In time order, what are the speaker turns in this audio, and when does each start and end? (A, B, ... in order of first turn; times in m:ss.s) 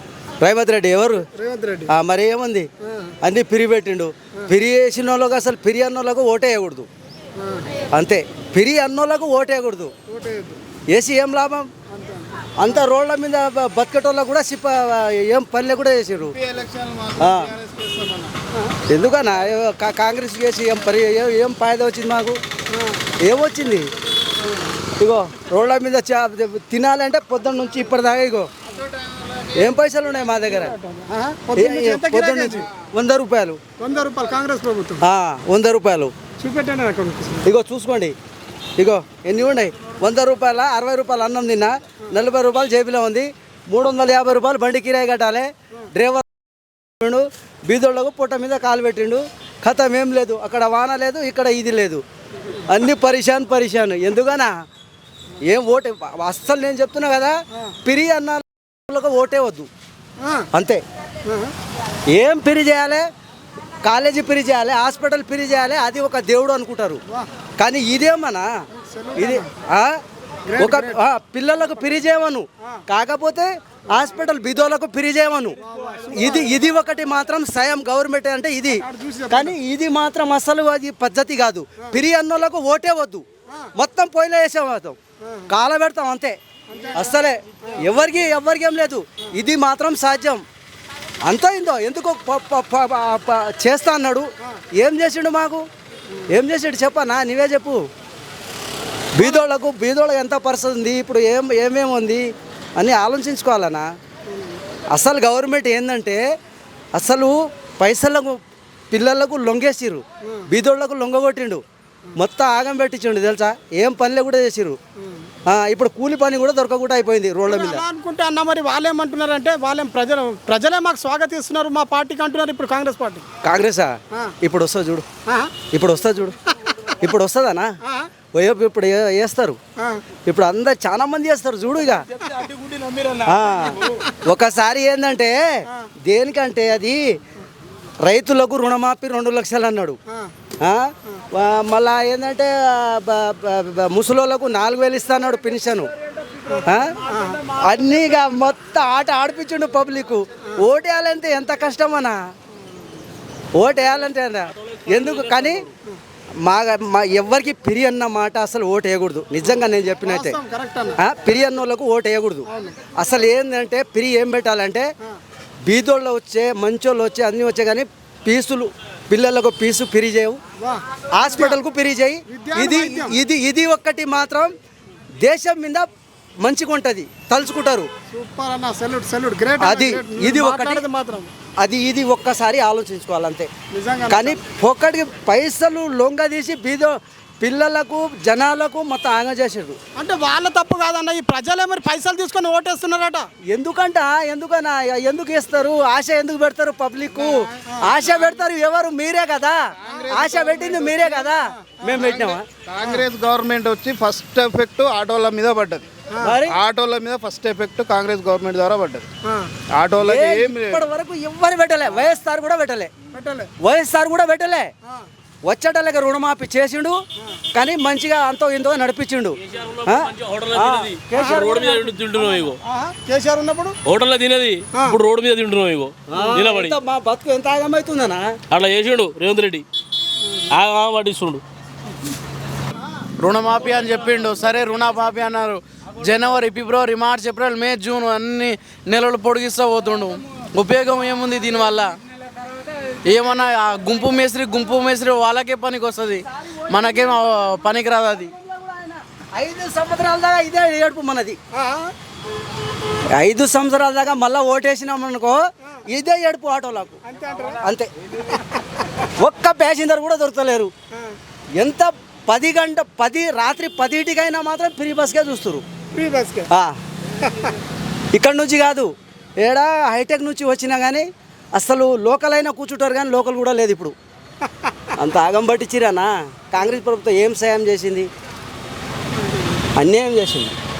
0:00.4-0:01.2 A
0:01.3-0:01.9 B
0:01.9-0:02.7 A
0:02.9-0:03.1 B
0:03.2-0:06.9 A
0:07.4-0:07.7 B
0:07.9-0:09.9 A
0:10.1-0:10.6 B
0:10.9-0:11.7 A
0:11.9-0:12.7 B
0:12.6-0:16.3 A
0:16.4-0:18.3 C
0:17.2-0:17.5 A
0:18.9-0:22.4 A
0:23.2-0:23.9 A
0:25.0-0:28.5 A
0:29.1-0:29.4 C
0:29.5-0:30.7 A
0:30.6-0:32.7 B
0:31.5-0:33.6 A
0:33.8-0:35.0 B
0:35.0-0:36.1 A
0:36.4-0:37.5 B
0:37.4-0:38.1 A
0:38.8-0:52.0 A
0:52.7-0:54.5 A
0:55.4-0:59.7 A
1:00.2-1:00.5 B
1:00.5-1:00.8 A
1:01.3-1:01.5 B
1:02.1-1:03.1 A
1:03.8-1:07.0 A
1:07.6-1:08.5 A
1:08.8-1:09.5 B
1:09.2-1:09.9 A
1:10.5-1:11.0 B
1:10.6-1:15.6 A
1:15.6-1:16.6 B
1:16.1-1:23.2 A
1:18.8-1:19.6 B
1:23.8-1:25.0 A
1:25.5-1:26.4 A
1:26.7-1:27.8 B
1:26.9-1:30.4 A
1:31.2-1:35.6 A
1:36.3-1:37.8 A
1:39.1-1:42.2 A
1:42.8-1:43.9 A
1:44.9-1:46.2 A
1:47.0-1:48.4 A
1:48.9-1:51.6 A
1:52.2-1:54.8 A
1:55.4-1:57.8 A
1:57.5-2:03.2 B
2:03.4-2:05.0 A
2:05.2-2:05.5 B
2:05.7-2:06.4 A
2:07.0-2:07.7 A
2:08.3-2:09.6 A
2:09.8-2:10.0 B
2:10.2-2:12.1 A
2:12.4-2:13.2 D
2:13.2-2:17.0 A
2:18.0-2:20.0 A
2:20.6-2:25.9 A
2:26.5-2:27.5 B
2:26.6-2:26.9 A
2:27.5-2:32.2 A
2:33.5-2:35.6 A
2:36.4-2:40.4 A
2:40.0-2:41.0 B
2:41.0-2:44.9 A
2:42.5-2:42.9 B
2:45.6-2:50.4 A
2:50.6-2:51.6 B
2:51.1-2:54.5 A
2:52.3-2:53.2 B
2:55.2-2:55.8 A
2:56.4-2:57.9 A
2:58.1-3:01.3 B
2:59.6-3:00.8 A
3:01.6-3:03.5 A
3:03.7-3:04.4 B
3:04.1-3:09.8 A
3:10.0-3:13.3 B
3:13.5-3:22.4 A
3:17.6-3:18.0 B
3:19.8-3:21.0 C
3:22.0-3:25.8 C
3:26.2-3:26.6 A
3:26.5-3:29.1 C
3:29.2-3:29.5 B
3:29.7-3:30.8 C
3:30.0-3:32.9 A
3:33.1-3:33.5 B
3:33.6-3:34.7 A
3:35.4-3:37.0 A
3:37.5-3:41.9 A
3:39.4-3:42.6 E
3:41.2-3:41.4 B
3:42.6-3:43.8 B
3:43.8-3:46.8 E
3:44.7-3:45.0 B
3:46.1-3:48.4 A
3:48.5-3:49.6 E
3:50.5-3:51.4 E
3:53.2-4:02.0 D
4:02.9-4:08.3 D
4:06.5-4:07.5 A
4:08.0-4:11.4 A
4:11.5-4:11.9 B
4:13.1-4:17.0 A
4:17.0-4:17.6 B
4:17.6-4:17.9 A
4:18.3-4:18.6 B
4:19.2-4:20.7 A
4:21.6-4:25.6 A
4:25.9-4:26.5 B
4:27.2-4:27.5 B
4:28.1-4:33.9 A
4:35.0-4:38.1 A
4:39.8-4:40.5 A